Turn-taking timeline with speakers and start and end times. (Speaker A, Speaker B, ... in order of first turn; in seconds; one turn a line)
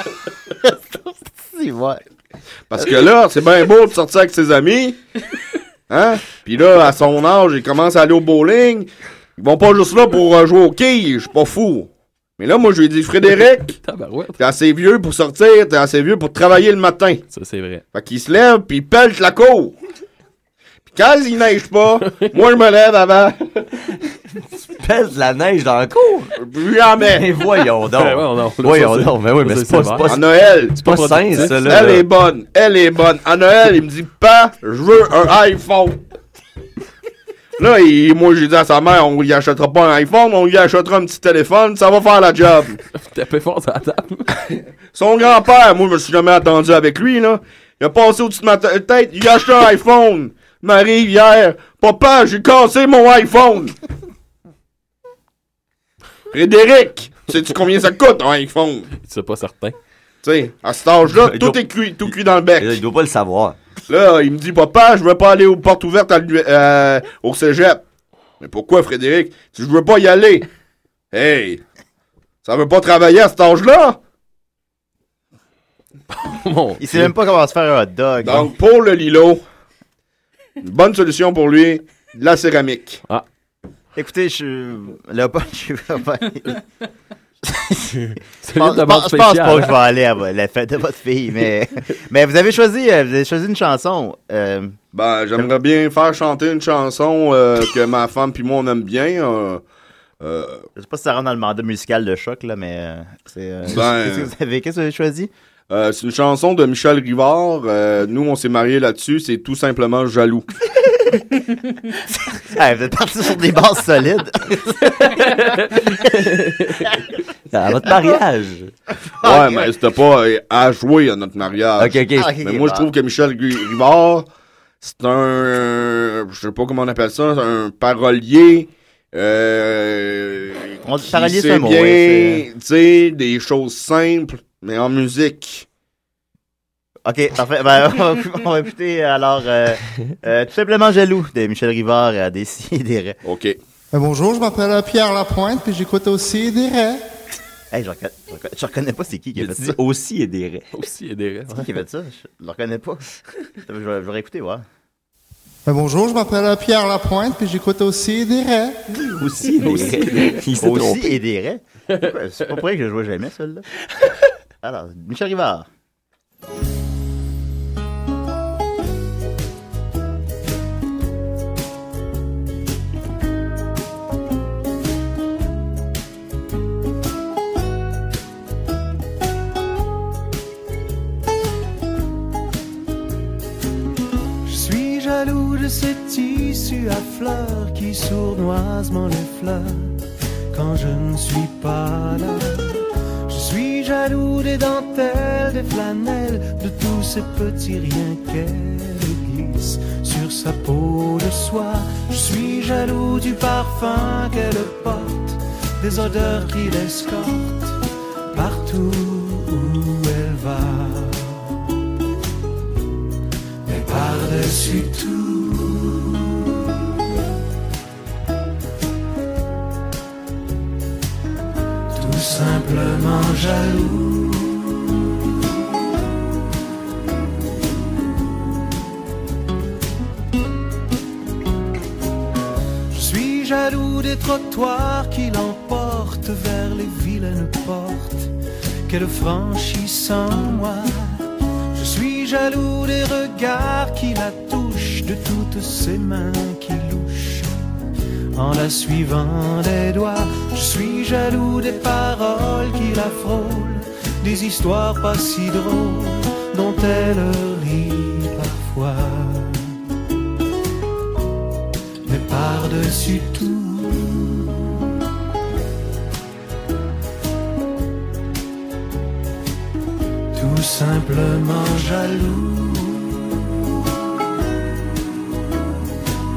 Speaker A: 0.6-2.0
Speaker B: 2.7-5.0
Speaker B: 5.9-13.8
Speaker C: 13.8-14.4
Speaker B: 14.4-17.2
Speaker C: 17.3-17.8
Speaker B: 17.9-19.8
Speaker B: 20.9-23.7
Speaker D: 24.6-26.3
Speaker B: 26.4-27.3
Speaker D: 27.0-32.1
Speaker C: 28.0-30.1
Speaker B: 30.1-36.0
Speaker C: 30.8-32.0
Speaker B: 37.6-42.8
Speaker C: 43.0-44.4
Speaker B: 44.9-53.8
Speaker B: 56.3-58.9
Speaker C: 59.0-59.8
Speaker B: 60.2-62.8
Speaker D: 61.1-61.6
Speaker D: 62.6-63.6
Speaker B: 63.9-67.8
Speaker B: 68.4-70.5
Speaker B: 71.1-71.6
Speaker B: 72.4-74.0
Speaker C: 76.1-77.1
Speaker A: 76.8-78.5
Speaker B: 78.2-79.4
Speaker B: 80.6-83.0
Speaker A: 84.0-86.6
Speaker A: 87.5-88.0
Speaker C: 88.0-89.8
Speaker A: 88.6-94.8
Speaker B: 94.9-99.6
Speaker B: 100.2-100.7
Speaker A: 100.8-105.3
Speaker B: 103.7-104.3
Speaker B: 105.7-110.5
Speaker A: 112.3-115.3
Speaker C: 114.8-116.9
Speaker D: 117.5-118.7
Speaker A: 119.2-119.7
Speaker B: 119.2-124.3
Speaker D: 121.8-122.3
Speaker A: 122.1-122.9
Speaker B: 124.8-135.7
Speaker A: 130.9-132.4
Speaker A: 137.1-143.2
Speaker B: 143.2-143.6
Speaker E: 143.9-147.0
Speaker A: 147.7-149.8
Speaker D: 149.4-150.7
Speaker C: 150.7-151.7
Speaker A: 151.5-153.1
Speaker A: 153.6-154.6
Speaker E: 155.7-158.8
Speaker D: 158.9-161.2
Speaker C: 159.6-160.4
Speaker A: 160.6-163.7
Speaker A: 164.6-165.7
Speaker F: 184.4-190.0
Speaker F: 190.5-207.8
Speaker F: 208.3-211.6
Speaker F: 213.7-216.8
Speaker F: 221.9-225.2
Speaker F: 232.9-238.3
Speaker F: 238.9-247.5
Speaker F: 248.3-259.7
Speaker F: 262.1-264.8
Speaker F: 270.3-273.6